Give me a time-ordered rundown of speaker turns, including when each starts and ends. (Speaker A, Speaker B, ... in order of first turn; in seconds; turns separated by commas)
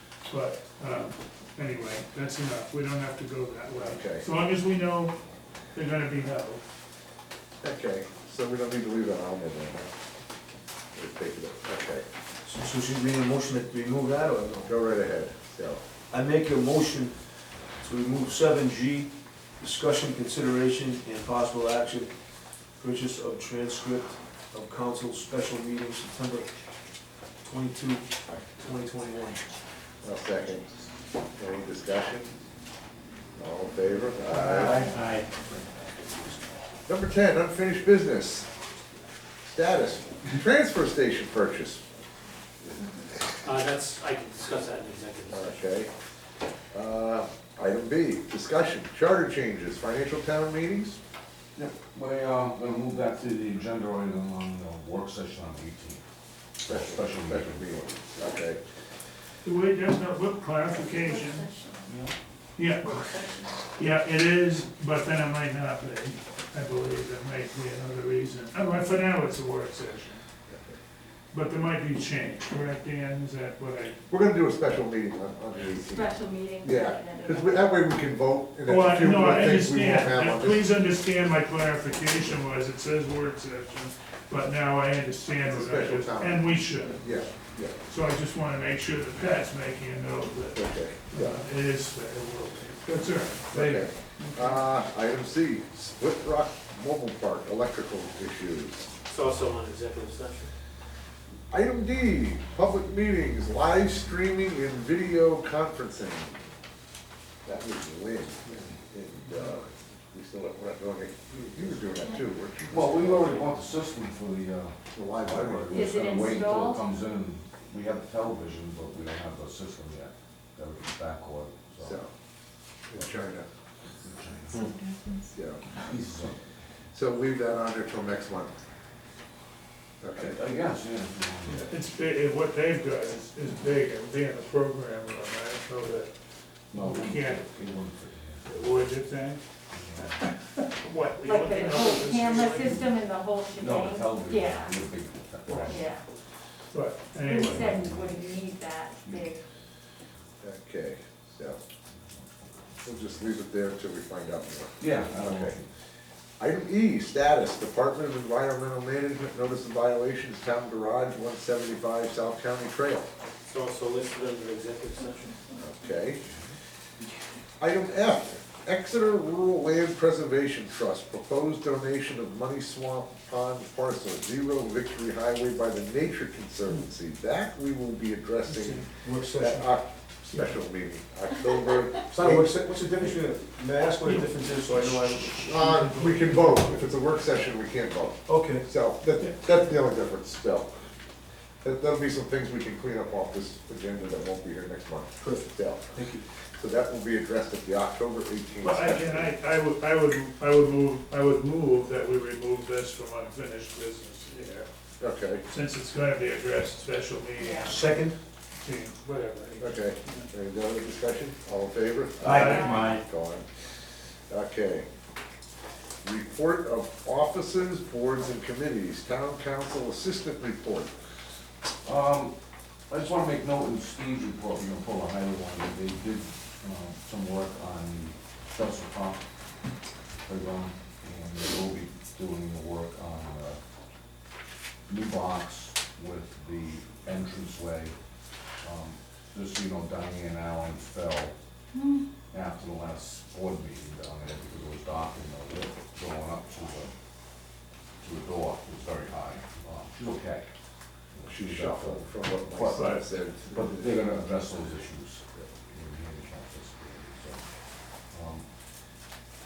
Speaker A: 0.3-5.2, Speaker B: 3.8-4.2, Speaker A: 5.7-6.6, Speaker B: 7.6-9.9, Speaker B: 10.9-12.0, Speaker C: 12.4-14.8, Speaker B: 14.7-15.8, Speaker C: 16.1-17.2, Speaker C: 17.7-22.1, Speaker C: 22.8-26.6, Speaker C: 27.4-29.5, Speaker B: 30.0-30.7, Speaker B: 31.3-32.3, Speaker B: 33.4-34.9, Speaker D: 34.6-35.3, Speaker B: 36.9-38.5, Speaker B: 39.5-41.8, Speaker D: 43.4-45.6, Speaker B: 45.3-45.9, Speaker B: 46.7-51.0, Speaker E: 51.6-56.0, Speaker E: 56.6-57.6, Speaker B: 56.7-58.6, Speaker A: 59.4-61.5, Speaker F: 60.8-61.9, Speaker E: 61.9-62.1, Speaker A: 62.6-63.2, Speaker F: 62.9-63.5, Speaker A: 63.7-70.2, Speaker B: 70.5-70.8, Speaker A: 71.3-74.0, Speaker B: 74.1-80.7, Speaker F: 75.8-77.8, Speaker A: 78.7-87.2, Speaker B: 85.4-87.8, Speaker A: 87.9-94.7, Speaker B: 90.5-91.4, Speaker B: 93.5-98.9, Speaker D: 99.1-100.5, Speaker B: 101.5-106.4, Speaker B: 107.5-113.5, Speaker E: 112.7-122.0, Speaker B: 114.9-116.0, Speaker F: 115.7-116.8, Speaker B: 121.8-122.1, Speaker B: 122.9-123.5, Speaker E: 123.0-123.2, Speaker E: 124.0-124.7, Speaker F: 124.6-125.3, Speaker B: 125.3-125.6, Speaker E: 125.8-126.3, Speaker B: 126.9-128.5, Speaker B: 130.0-130.4, Speaker E: 130.2-131.7, Speaker A: 131.7-136.1, Speaker A: 136.7-137.4, Speaker E: 136.7-138.9, Speaker A: 138.5-139.4, Speaker E: 139.7-140.3, Speaker A: 140.0-142.8, Speaker F: 141.2-144.8, Speaker E: 142.6-146.0, Speaker A: 145.5-145.8, Speaker F: 145.7-146.0, Speaker A: 146.7-147.7, Speaker F: 147.2-149.4, Speaker E: 147.3-148.4, Speaker E: 149.0-149.3, Speaker B: 150.4-151.6, Speaker B: 152.8-155.6, Speaker E: 154.8-155.7, Speaker B: 156.4-163.1, Speaker D: 163.5-165.4, Speaker B: 165.6-166.2, Speaker B: 167.6-182.5, Speaker A: 178.4-178.9, Speaker C: 179.0-179.8, Speaker A: 180.3-180.6, Speaker C: 182.1-186.1, Speaker A: 184.0-186.8, Speaker B: 185.5-190.7, Speaker C: 188.3-188.7, Speaker B: 191.6-196.0, Speaker C: 195.2-196.2, Speaker B: 196.6-199.3, Speaker A: 198.6-204.7, Speaker B: 205.0-205.4, Speaker A: 205.5-208.1, Speaker F: 207.4-207.7, Speaker C: 207.6-208.2, Speaker A: 208.6-210.3, Speaker B: 209.6-213.4, Speaker A: 212.2-212.9, Speaker C: 212.2-213.0, Speaker F: 212.5-212.8, Speaker B: 214.3-214.9, Speaker B: 216.0-220.9, Speaker E: 221.8-222.3, Speaker E: 222.9-229.2, Speaker E: 230.3-233.6, Speaker E: 234.9-237.9, Speaker E: 238.6-241.3, Speaker F: 241.7-242.0, Speaker E: 242.3-246.9, Speaker E: 248.0-250.5, Speaker E: 251.1-257.4, Speaker B: 251.3-254.2, Speaker A: 252.7-253.0, Speaker E: 258.1-258.5